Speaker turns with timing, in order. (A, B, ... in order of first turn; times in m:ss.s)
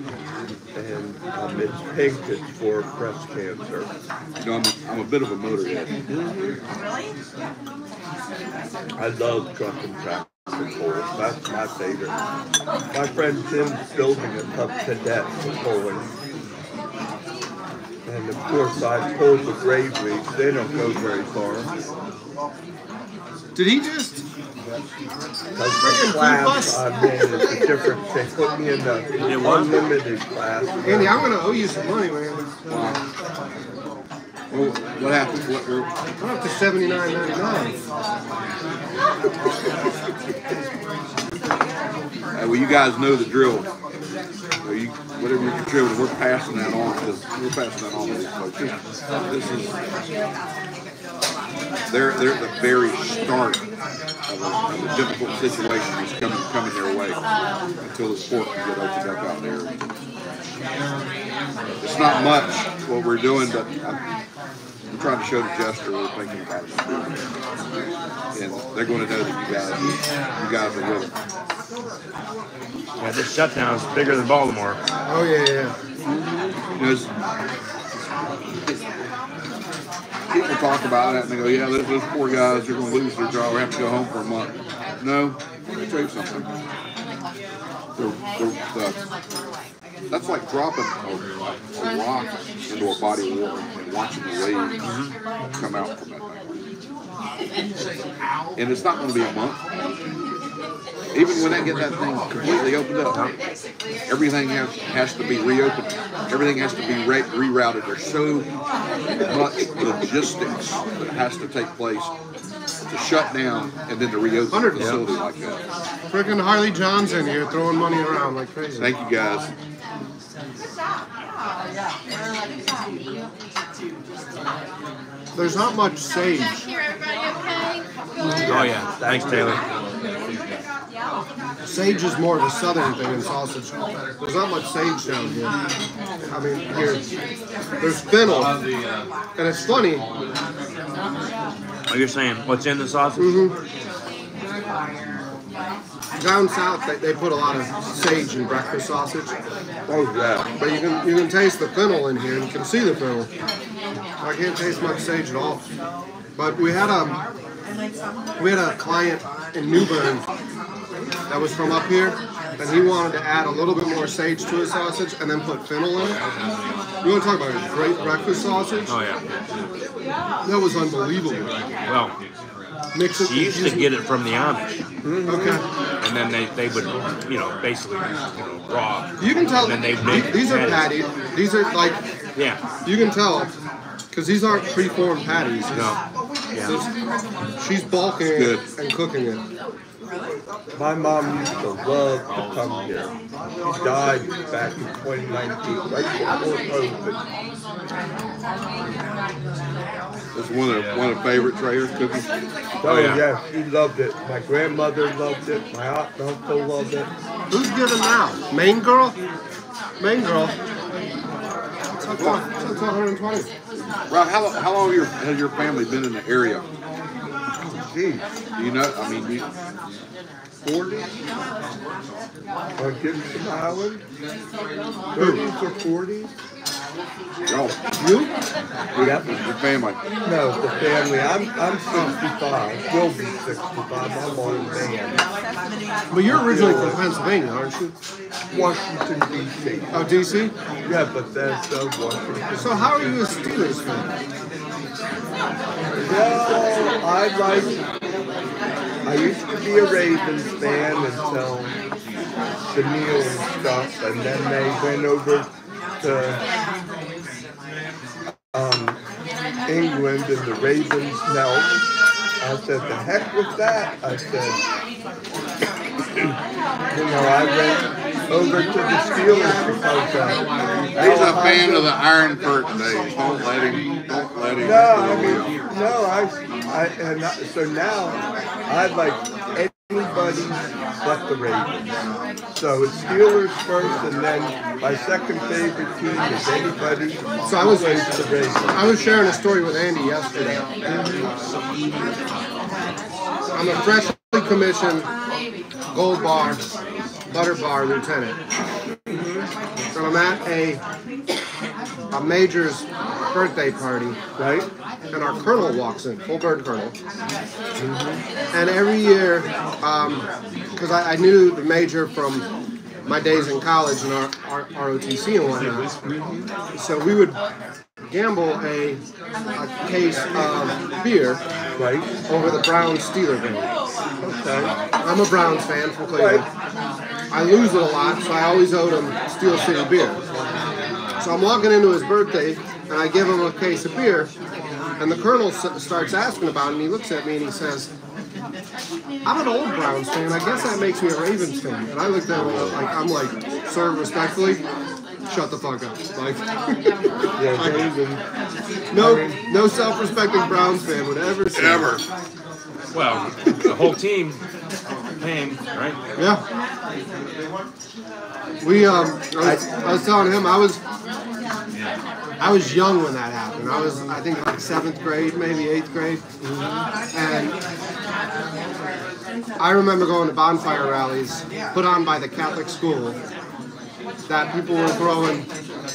0:00.7-0:03.9 A
0:04.4-0:05.9 B
0:06.1-0:06.6 A
0:09.0-0:12.1 A
0:12.9-0:16.1 A
0:18.1-0:21.7 A
0:23.6-0:24.2 C
0:25.6-0:31.3 A
0:25.8-0:26.9 C
0:29.2-0:29.8 D
0:30.8-0:32.5 C
0:32.7-0:33.0 B
0:34.5-0:35.9 B
0:36.2-0:37.8 C
0:42.3-0:43.7 B
0:44.6-0:48.8 B
0:49.3-0:49.7 B
0:51.9-0:53.6 B
0:54.3-0:57.2 B
0:57.8-0:59.7 B
1:01.8-1:04.0 B
1:04.9-1:07.2 B
1:08.3-1:11.1 B
1:13.0-1:14.8 D
1:15.1-1:15.7 C
1:16.8-1:17.1 B
1:20.3-1:26.5 B
1:28.0-1:29.0 B
1:30.1-1:34.8 B
1:34.8-1:35.1 D
1:35.6-1:36.4 B
1:38.6-1:39.6 B
1:41.1-1:43.2 B
1:44.1-1:48.5 B
1:49.2-1:52.1 B
1:52.9-1:55.6 B
1:54.5-1:55.0 C
1:54.8-1:55.0 D
1:56.1-1:58.9 C
1:58.8-1:59.5 B
2:05.4-2:06.6 C
2:06.2-2:08.6 E
2:08.3-2:09.6 A
2:08.5-2:09.6 D
2:11.6-2:15.5 C
2:16.3-2:17.0 C
2:17.8-2:18.6 C
2:19.4-2:20.1 C
2:21.9-2:23.4 D
2:23.2-2:23.6 C
2:26.2-2:29.3 C
2:29.9-2:30.5 A
2:30.6-2:33.3 C
2:34.2-2:35.6 C
2:36.4-2:37.2 C
2:38.4-2:40.3 C
2:41.3-2:46.2 C
2:47.0-2:49.0 C
2:48.9-2:49.2 D
2:50.4-2:51.5 C
2:51.8-2:52.2 D
2:52.9-2:53.9 C
2:53.2-2:54.8 D
2:55.0-2:55.6 A
2:55.3-2:55.6 C
2:56.0-3:01.0 D
2:59.2-3:02.0 C
3:02.8-3:03.5 C
3:04.1-3:06.0 C
3:05.7-3:06.0 D
3:06.6-3:06.9 C
3:07.6-3:09.4 C
3:08.2-3:08.6 B
3:10.7-3:13.1 A
3:13.6-3:17.2 A
3:20.3-3:22.3 B
3:22.8-3:27.1 A
3:22.8-3:23.2 D
3:27.5-3:29.2 C
3:30.0-3:30.6 C
3:32.0-3:33.5 C
3:32.2-3:32.4 B
3:34.1-3:36.6 B
3:37.7-3:38.2 A
3:38.6-3:39.5 B
3:40.6-3:41.1 A
3:42.8-3:44.0 A
3:45.1-3:46.3 A
3:45.2-3:45.4 C
3:47.5-3:47.8 B
3:48.0-3:48.3 C
3:48.9-3:50.0 B
3:49.0-3:49.3 A
3:50.2-3:55.2 A
3:56.1-3:57.9 C
3:56.3-3:57.0 A
3:58.5-4:00.1 A
3:59.9-4:00.5 C
4:00.8-4:03.3 A
4:02.6-4:04.1 C
4:06.0-4:07.8 A
4:09.0-4:11.8 A
4:12.7-4:16.4 A
4:18.5-4:19.0 A
4:19.7-4:21.7 A
4:22.4-4:24.6 A
4:26.9-4:30.4 A
4:30.9-4:31.9 A
4:31.0-4:35.5 B
4:34.6-4:41.9 A
4:42.6-4:48.9 A
4:47.4-4:48.1 C
4:48.7-4:50.6 C
4:50.9-4:51.3 A
4:53.5-4:55.1 C
4:55.9-4:56.7 C
4:57.3-4:58.4 C
4:59.1-4:59.5 A
4:59.9-5:00.8 C
5:02.1-5:04.2 C
5:04.4-5:04.7 A
5:05.1-5:07.0 C
5:07.8-5:08.2 A
5:08.5-5:12.5 C
5:13.0-5:15.9 C
5:16.0-5:16.5 A
5:16.7-5:17.4 C
5:18.1-5:19.0 C
5:19.6-5:21.4 C
5:21.8-5:22.1 A
5:22.3-5:23.7 C
5:24.2-5:24.8 A
5:25.0-5:26.5 C
5:26.2-5:26.5 A
5:27.3-5:30.2 C
5:31.2-5:34.3 C
5:35.0-5:37.9 C
5:39.2-5:44.6 C
5:45.3-5:46.9 C
5:47.4-5:48.2 A
5:47.5-5:47.9 C
5:48.9-5:52.0 C
5:48.9-5:49.4 A
5:51.5-5:52.0 B
5:52.9-5:54.4 D
5:55.2-5:56.0 D
5:56.2-5:56.4 C
5:58.6-6:00.8 C
5:59.4-5:59.7 A
6:02.4-6:06.2 C
6:06.4-6:06.7 A
6:07.1-6:07.6 C
6:09.6-6:13.2 C
6:14.3-6:15.5 C